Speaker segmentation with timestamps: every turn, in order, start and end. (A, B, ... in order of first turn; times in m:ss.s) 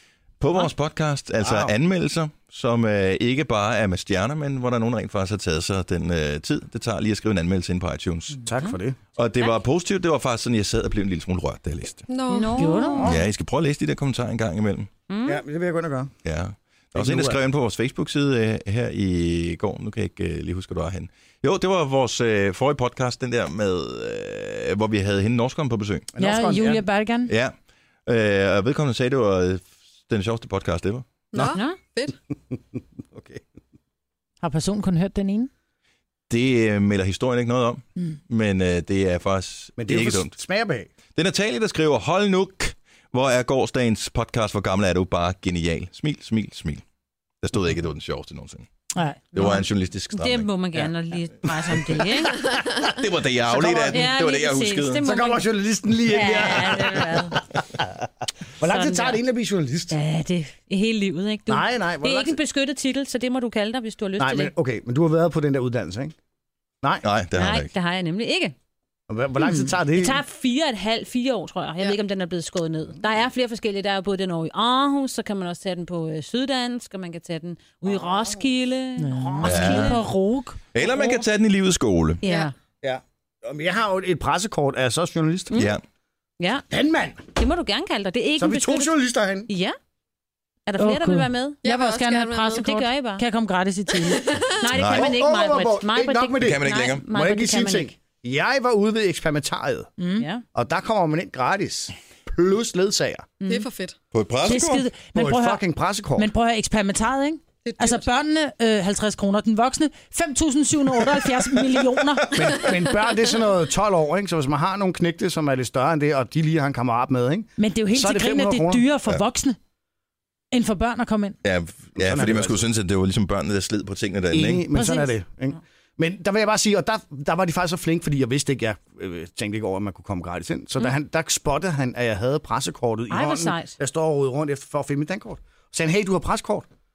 0:00.4-0:08.4 A
0:01.4-0:01.7 B
0:08.5-0:09.0 B
0:09.2-0:12.0 A
0:12.1-0:12.7 C
0:12.3-0:13.0 D
0:12.6-0:13.0 E
0:13.0-0:13.2 B
0:13.0-0:14.9 A
0:15.1-0:15.4 D
0:15.2-0:16.1 B
0:16.2-0:26.1 A
0:17.0-0:17.4 B
0:26.2-0:26.8 B
0:26.2-0:27.3 E
0:27.3-0:27.6 A
0:28.1-0:31.1 A
0:31.3-0:32.2 C
0:31.5-0:31.8 D
0:32.5-0:33.4 B
0:34.4-0:35.5 E
0:36.3-0:40.3 A
0:39.8-0:40.9 B
0:41.2-0:46.8 A
0:47.4-0:48.7 A
0:49.0-0:49.2 E
0:49.3-0:50.9 A
0:49.3-0:52.4 D
0:51.7-0:52.1 B
0:52.8-0:55.1 A
0:53.5-0:54.0 B
0:53.9-0:55.5 D
0:55.0-0:57.8 B
0:56.1-0:57.4 D
0:58.6-1:00.0 B
0:58.6-0:59.2 D
0:59.9-1:04.5 D
1:01.5-1:02.4 B
1:04.2-1:06.2 B
1:07.0-1:07.7 A
1:07.3-1:08.6 D
1:09.1-1:10.2 B
1:09.9-1:20.0 D
1:19.0-1:20.6 E
1:19.4-1:20.0 A
1:20.7-1:22.2 A
1:22.2-1:22.5 D
1:22.2-1:22.5 C
1:22.8-1:25.6 B
1:25.5-1:25.8 A
1:26.4-1:26.7 D
1:26.7-1:27.2 B
1:27.4-1:29.8 D
1:28.4-1:29.5 B
1:30.7-1:31.6 D
1:30.8-1:34.3 E
1:31.6-1:32.7 C
1:32.6-1:33.2 D
1:34.2-1:34.6 C
1:34.6-1:37.9 D
1:34.7-1:35.2 A
1:34.9-1:39.9 B
1:36.4-1:37.0 A
1:40.0-1:40.3 E
1:40.2-1:40.4 D
1:40.5-1:43.3 B
1:43.5-1:44.0 C
1:44.1-1:44.9 A
1:44.4-1:45.6 E
1:45.1-1:46.3 B
1:46.2-1:52.3 E
1:47.6-1:48.0 C
1:52.4-1:58.8 B
1:57.6-1:59.6 E
2:00.5-2:01.4 E
2:01.4-2:04.7 A
2:02.0-2:02.6 B
2:04.3-2:16.7 B
2:04.7-2:05.1 E
2:13.1-2:13.8 D